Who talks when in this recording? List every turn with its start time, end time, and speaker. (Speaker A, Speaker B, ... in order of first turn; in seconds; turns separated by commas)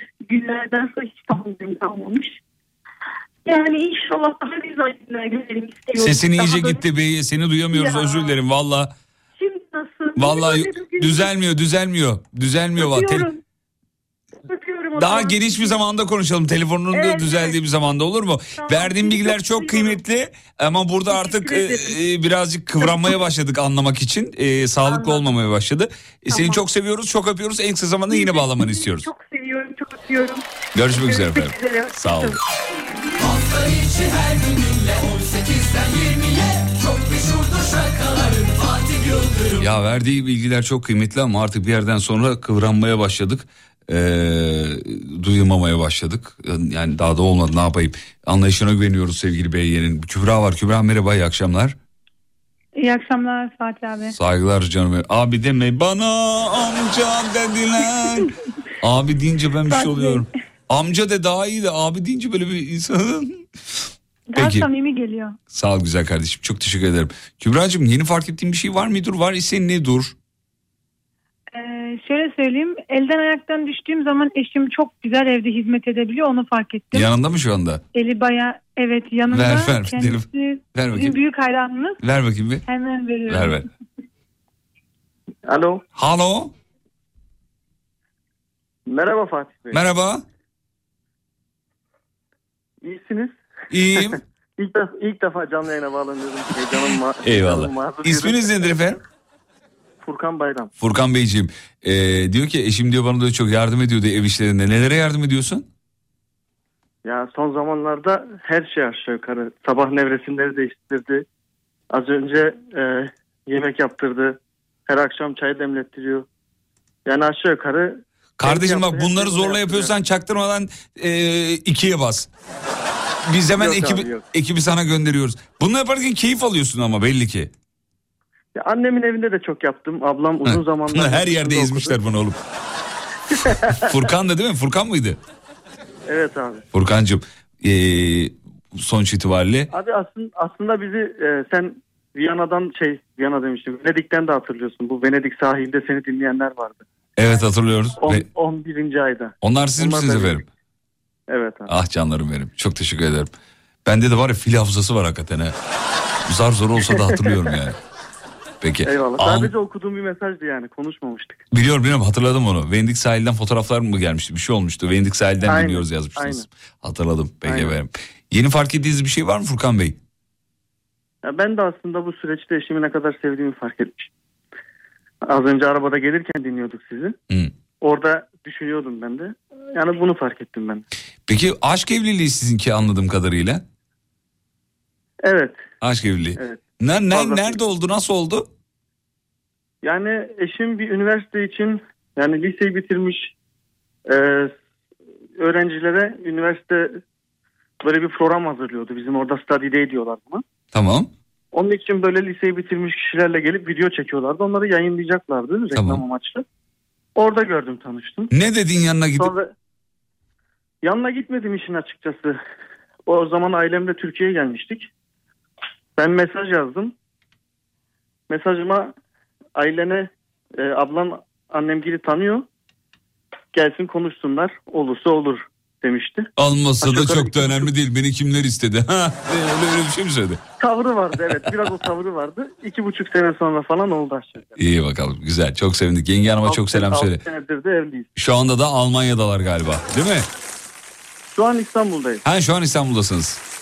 Speaker A: 0.3-2.4, Speaker A: 3.5-6.8, Speaker B: 6.0-8.9, Speaker A: 7.7-8.4, Speaker A: 9.4-11.3, Speaker B: 10.2-13.3, Speaker A: 12.8-13.4, Speaker A: 14.4-15.8, Speaker B: 15.0-29.1, Speaker A: 16.9-17.6, Speaker A: 18.6-20.0, Speaker A: 21.1-22.0, Speaker A: 22.8-23.2, Speaker A: 24.9-25.3, Speaker A: 26.3-26.7, Speaker A: 28.1-32.4, Speaker B: 30.8-32.4, Speaker C: 33.2-39.7, Speaker B: 39.6-51.8, Speaker D: 52.8-54.1, Speaker B: 54.1-63.4, Speaker D: 59.7-60.3, Speaker D: 64.3-65.4, Speaker B: 64.4-64.7, Speaker B: 65.5-70.2, Speaker D: 71.5-77.1, Speaker B: 76.9-77.8, Speaker D: 77.9-82.0, Speaker B: 79.3-81.2, Speaker B: 82.0-82.6, Speaker D: 82.7-83.6, Speaker B: 83.3-83.7, Speaker E: 85.5-85.8, Speaker B: 86.0-86.5, Speaker E: 88.9-89.9, Speaker B: 89.7-90.2, Speaker E: 92.8-93.4, Speaker B: 93.7-94.2, Speaker E: 93.9-98.9, Speaker B: 97.2-99.0, Speaker E: 100.0-100.7, Speaker B: 100.8-105.7, Speaker E: 107.0-111.2, Speaker E: 111.9-116.3, Speaker E: 117.1-119.9, Speaker B: 118.4-122.3, Speaker B: 123.2-127.5, Speaker E: 123.5-124.2, Speaker E: 128.6-132.0, Speaker B: 130.4-132.4, Speaker E: 133.3-134.0, Speaker B: 133.7-135.2, Speaker E: 136.1-136.7, Speaker B: 136.7-139.7, Speaker E: 139.7-146.8, Speaker B: 147.2-148.3, Speaker E: 148.0-150.4, Speaker B: 149.4-150.4, Speaker E: 151.3-151.7, Speaker B: 151.7-153.3, Speaker B: 153.8-155.6, Speaker B: 156.3-157.8, Speaker E: 156.8-157.5, Speaker B: 158.6-159.5, Speaker E: 158.8-161.4, Speaker B: 161.5-170.0, Speaker E: 165.4-166.4, Speaker E: 167.4-167.8, Speaker E: 171.2-174.1, Speaker E: 175.3-177.2, Speaker E: 177.8-180.8, Speaker B: 181.3-183.6, Speaker E: 185.2-185.6, Speaker B: 185.8-188.5, Speaker E: 186.4-187.6, Speaker E: 189.8-193.3, Speaker E: 194.1-194.5, Speaker E: 195.4-197.0, Speaker E: 197.8-200.4, Speaker B: 200.7-201.1, Speaker E: 201.5-206.4, Speaker B: 205.7-206.0, Speaker E: 207.2-208.3, Speaker B: 208.3-209.3, Speaker E: 209.2-209.5, Speaker E: 210.8-212.4, Speaker E: 213.1-214.9, Speaker E: 216.0-216.9, Speaker E: 218.3-218.9, Speaker E: 219.6-222.5, Speaker E: 223.5-226.3, Speaker B: 226.4-230.4, Speaker E: 226.8-227.7, Speaker E: 230.6-234.6, Speaker B: 234.6-237.2, Speaker E: 236.4-238.1, Speaker B: 238.2-240.3, Speaker E: 241.3-242.2, Speaker B: 242.2-243.4